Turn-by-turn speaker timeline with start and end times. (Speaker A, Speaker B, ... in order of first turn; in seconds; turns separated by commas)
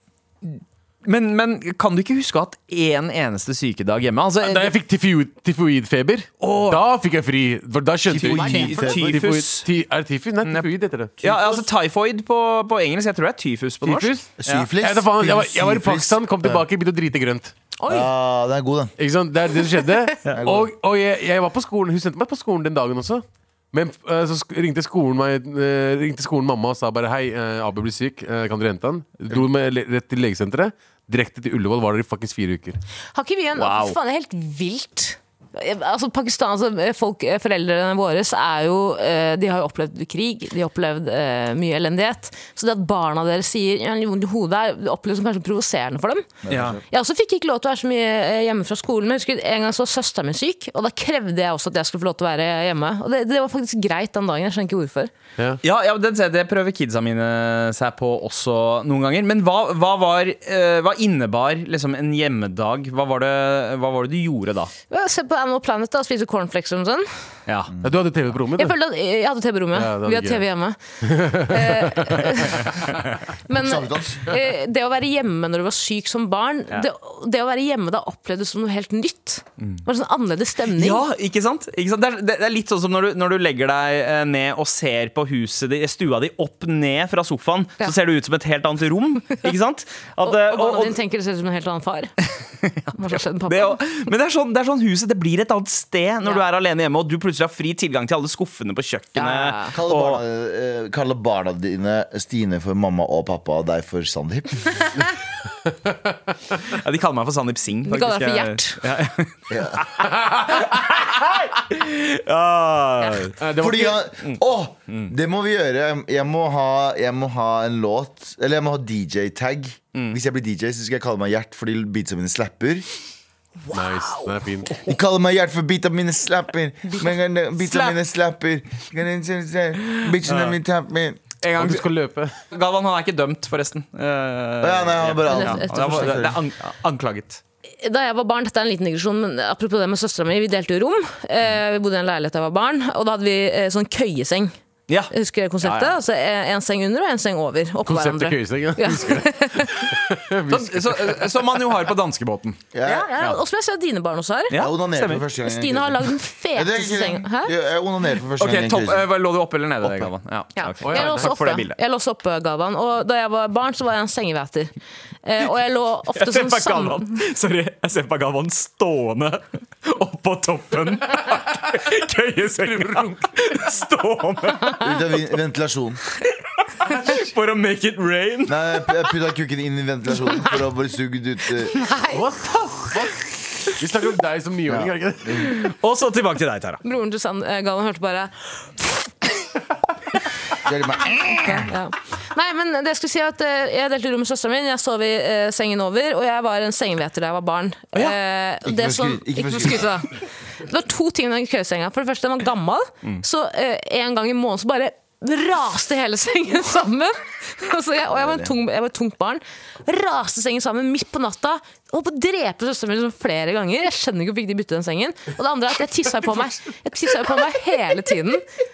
Speaker A: 0.5-4.7, Speaker B: 4.4-11.1, Speaker A: 6.4-6.8, Speaker C: 8.1-9.2, Speaker A: 8.1-9.7, Speaker D: 8.4-8.8, Speaker A: 10.4-10.7, Speaker A: 11.2-14.7, Speaker C: 11.2-11.7, Speaker B: 13.8-17.5, Speaker C: 14.4-16.6, Speaker D: 17.8-18.1, Speaker C: 17.9-18.9, Speaker B: 19.0-32.8, Speaker C: 20.4-20.7, Speaker D: 33.1-46.3, Speaker A: 33.6-34.0, Speaker C: 46.4-46.8, Speaker A: 46.5-46.8, Speaker D: 46.9-55.1, Speaker A: 55.6-64.7, Speaker D: 64.9-67.1, Speaker B: 67.8-68.8, Speaker D: 68.6-70.8, Speaker B: 69.7-70.5, Speaker B: 71.0-72.1, Speaker D: 71.3-72.7, Speaker D: 73.5-81.0, Speaker C: 73.5-74.4, Speaker A: 80.7-91.0, Speaker D: 90.2-92.1, Speaker A: 92.6-92.9, Speaker D: 93.0-93.8, Speaker A: 93.5-100.2, Speaker D: 99.2-99.7, Speaker C: 99.7-104.7, Speaker A: 106.7-113.4, Speaker D: 107.9-108.8, Speaker C: 109.5-109.8, Speaker B: 110.2-110.5, Speaker B: 113.4-114.0, Speaker C: 113.6-122.9, Speaker A: 114.2-115.1, Speaker B: 123.7-124.8, Speaker A: 123.7-124.3, Speaker C: 124.8-131.2, Speaker A: 130.2-130.6, Speaker A: 131.4-131.8, Speaker B: 131.6-132.3, Speaker A: 132.5-137.4, Speaker C: 134.6-136.4, Speaker D: 135.2-136.3, Speaker D: 137.8-144.5, Speaker A: 144.9-146.0, Speaker D: 145.1-149.9, Speaker B: 147.9-151.3, Speaker A: 150.5-153.4, Speaker C: 152.7-153.1, Speaker D: 152.8-154.6, Speaker A: 154.5-155.2, Speaker C: 154.5-159.1, Speaker D: 155.4-157.5, Speaker A: 158.4-161.8, Speaker C: 159.8-160.1, Speaker D: 160.6-167.1, Speaker B: 160.8-161.3, Speaker A: 166.1-174.9, Speaker C: 174.8-176.0, Speaker A: 176.8-179.0, Speaker C: 178.5-181.9, Speaker D: 181.8-182.2, Speaker B: 182.1-183.2, Speaker B: 183.8-185.5, Speaker C: 184.7-185.5, Speaker A: 185.6-186.8, Speaker D: 186.8-188.7, Speaker C: 190.6-191.7, Speaker D: 191.5-218.4, Speaker C: 198.7-199.9, Speaker C: 208.1-208.5